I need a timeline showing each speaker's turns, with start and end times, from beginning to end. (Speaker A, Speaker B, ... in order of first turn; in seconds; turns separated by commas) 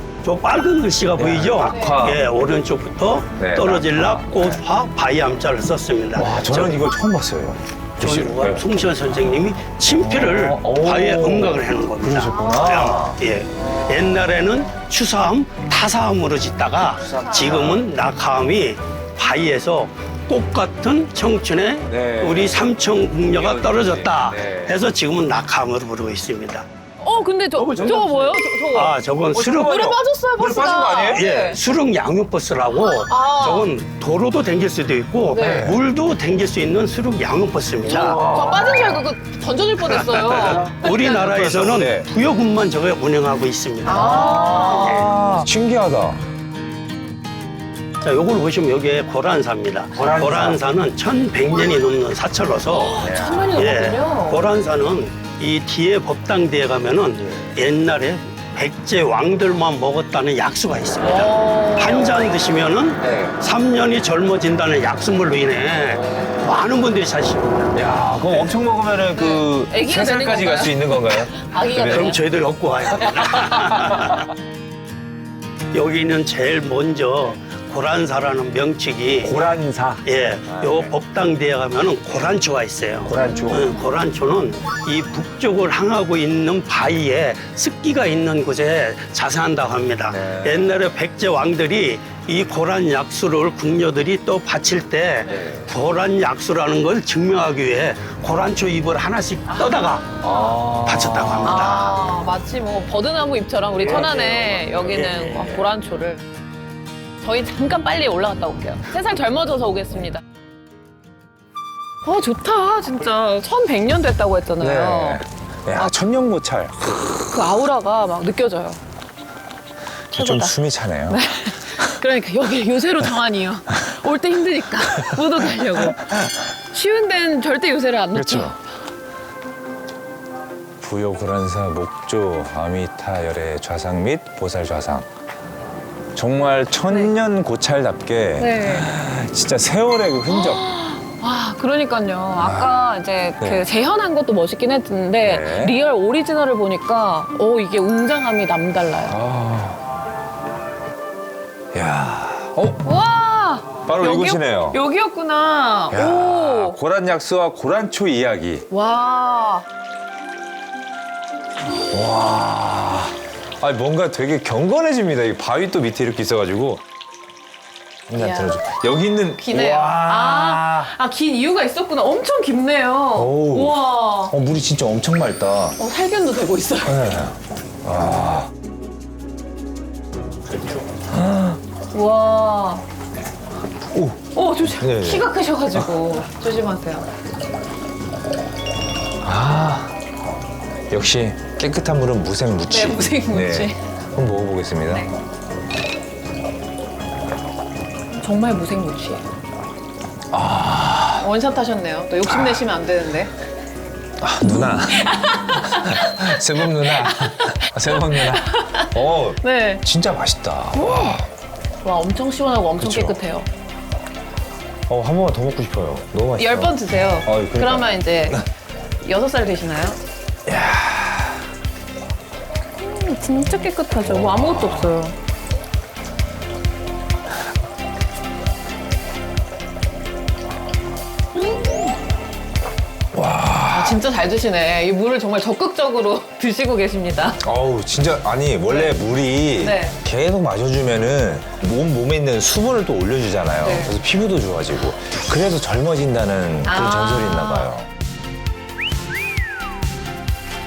Speaker A: 0.2-6.8, Speaker B: 1.2-2.2, Speaker C: 1.6-2.0, Speaker B: 3.4-4.6, Speaker B: 6.2-9.1, Speaker A: 8.0-26.6, Speaker B: 9.9-13.2, Speaker B: 17.0-17.9, Speaker C: 17.2-17.6, Speaker B: 21.9-22.7, Speaker B: 23.3-24.8, Speaker C: 27.0-28.9, Speaker A: 27.6-29.8, Speaker B: 27.6-28.2, Speaker B: 29.3-31.2, Speaker C: 29.6-31.6, Speaker A: 31.0-38.2, Speaker C: 32.8-33.7, Speaker C: 35.3-35.7, Speaker B: 35.4-35.8, Speaker B: 37.8-39.0, Speaker C: 37.9-41.3, Speaker A: 39.8-45.2, Speaker B: 41.2-42.1, Speaker C: 43.8-45.2, Speaker B: 43.9-46.2, Speaker A: 48.0-68.5, Speaker B: 50.0-50.6, Speaker C: 52.7-54.4, Speaker B: 53.0-53.6, Speaker C: 61.0-62.3, Speaker B: 63.0-63.3, Speaker B: 67.7-72.1, Speaker C: 69.2-72.2, Speaker A: 71.8-74.2, Speaker B: 73.0-73.8, Speaker A: 75.7-79.3, Speaker B: 79.2-80.9, Speaker A: 80.0-100.2, Speaker B: 83.0-83.7, Speaker B: 90.1-90.8, Speaker B: 95.3-95.7, Speaker C: 99.5-99.8, Speaker B: 100.2-101.6, Speaker A: 100.8-102.0, Speaker C: 101.4-106.2, Speaker A: 103.8-105.7, Speaker C: 107.2-110.2, Speaker C: 112.0-115.2, Speaker B: 114.6-116.8, Speaker C: 117.2-118.8, Speaker C: 120.1-126.1, Speaker B: 120.1-121.2, Speaker B: 125.2-125.9, Speaker C: 126.7-128.5, Speaker B: 128.1-128.6, Speaker B: 130.8-135.1, Speaker B: 136.1-140.7, Speaker C: 136.9-137.1, Speaker C: 138.4-138.9, Speaker C: 140.3-149.2, Speaker B: 142.4-142.8, Speaker B: 143.4-143.7, Speaker B: 145.2-145.8, Speaker B: 149.1-149.8, Speaker B: 151.7-152.8, Speaker C: 152.8-156.8, Speaker B: 153.9-154.8, Speaker B: 155.9-158.7, Speaker C: 158.7-159.7, Speaker B: 161.9-166.8, Speaker B: 168.1-170.9, Speaker C: 168.1-168.6, Speaker C: 169.4-174.3, Speaker B: 173.1-175.8, Speaker C: 175.8-177.1, Speaker B: 176.8-178.5, Speaker B: 181.1-181.6, Speaker C: 181.9-182.8, Speaker B: 183.9-185.9, Speaker C: 184.3-187.1, Speaker B: 189.2-189.9, Speaker B: 190.9-195.1, Speaker C: 192.7-193.8, Speaker C: 198.1-199.2, Speaker B: 200.3-201.2, Speaker C: 201.2-203.3, Speaker B: 202.2-202.6, Speaker B: 204.2-211.2, Speaker C: 204.4-208.9, Speaker C: 209.4-209.8, Speaker C: 210.7-211.2, Speaker C: 211.8-213.5, Speaker B: 212.8-213.2, Speaker B: 214.9-218.4, Speaker C: 216.4-218.4, Speaker C: 219.0-220.0, Speaker B: 220.5-221.4, Speaker C: 222.8-225.1, Speaker B: 224.0-225.0, Speaker B: 233.1-234.0, Speaker C: 233.7-237.4, Speaker B: 237.4-247.9, Speaker C: 238.7-239.0, Speaker C: 239.6-240.0, Speaker C: 243.6-244.0, Speaker C: 246.6-247.7